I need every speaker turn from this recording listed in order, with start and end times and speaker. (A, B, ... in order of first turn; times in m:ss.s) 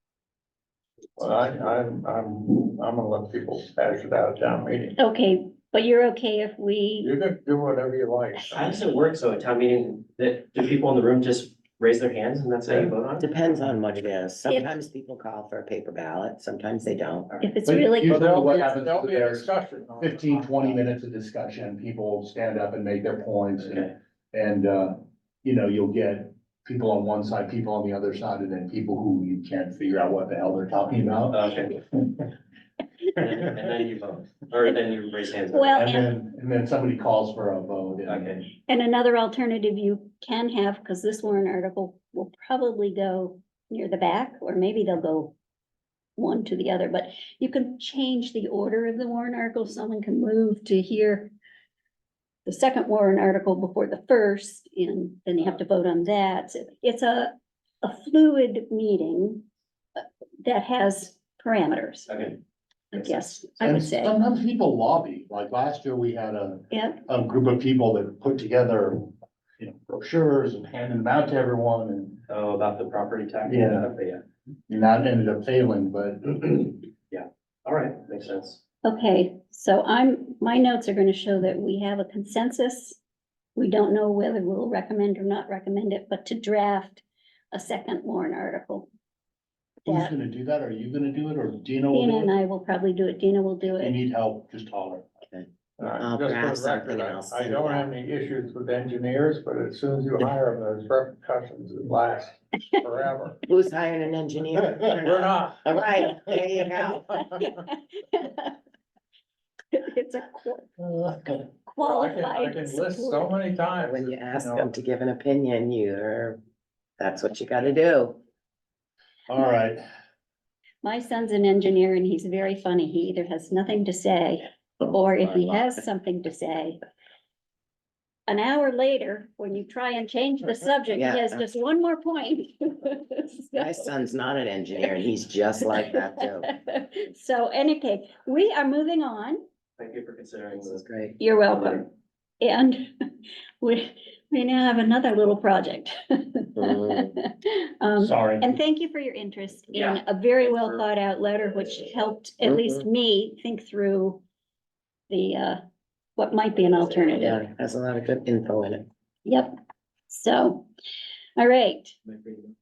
0:01.2-0:05.0 A
0:05.0-0:07.1 B
0:07.0-0:08.8 A
0:08.5-0:13.5 C
0:12.7-0:12.9 A
0:13.2-0:17.3 D
0:14.5-0:14.7 B
0:17.4-0:18.4 B
0:17.7-0:19.5 E
0:18.0-0:20.8 A
0:20.0-0:23.8 E
0:23.6-0:23.9 C
0:24.3-0:31.4 E
0:31.3-0:31.8 C
0:33.2-0:35.7 C
0:35.5-0:36.1 B
0:35.8-0:38.3 E
0:38.1-0:38.4 C
0:38.7-0:45.3 B
0:46.2-0:51.3 B
0:52.5-0:59.5 B
1:00.0-1:02.1 B
1:02.1-1:02.4 C
1:02.9-1:04.2 B
1:03.6-1:12.2 E
1:06.7-1:07.0 B
1:12.3-1:14.2 C
1:13.5-1:13.9 E
1:14.7-1:16.6 E
1:16.7-1:18.6 C
1:18.8-1:23.0 B
1:23.6-1:28.9 B
1:29.9-1:30.1 B
1:29.9-1:32.3 E
1:31.9-1:34.0 B
1:33.8-1:35.1 E
1:35.3-1:37.9 D
1:35.8-1:43.4 A
1:43.5-1:47.2 D
1:45.0-1:47.2 A
1:47.2-1:48.6 B
1:49.7-1:50.7 B
1:50.9-1:51.3 E
1:51.7-1:53.3 B
1:51.8-1:54.7 A
1:53.8-1:56.4 D
1:57.0-1:58.2 D
1:59.3-1:59.8 E
2:00.8-2:06.8 B
2:05.2-2:05.6 D
2:08.3-2:13.8 B
2:11.0-2:11.5 D
2:13.6-2:16.5 D
2:15.7-2:19.4 B
2:19.8-2:20.8 C
2:20.7-2:21.2 D
2:21.2-2:21.9 B
2:21.4-2:21.8 C
2:22.4-2:22.9 B
2:23.6-2:34.2 B
2:26.6-2:27.1 D
2:28.0-2:28.5 E
2:29.7-2:30.8 C
2:32.4-2:32.8 D
2:35.1-2:35.6 B
2:36.2-2:37.4 B
2:37.2-2:38.9 D
2:39.2-2:39.6 B
2:40.1-2:40.7 B
2:41.4-2:41.9 B
2:42.1-2:42.5 C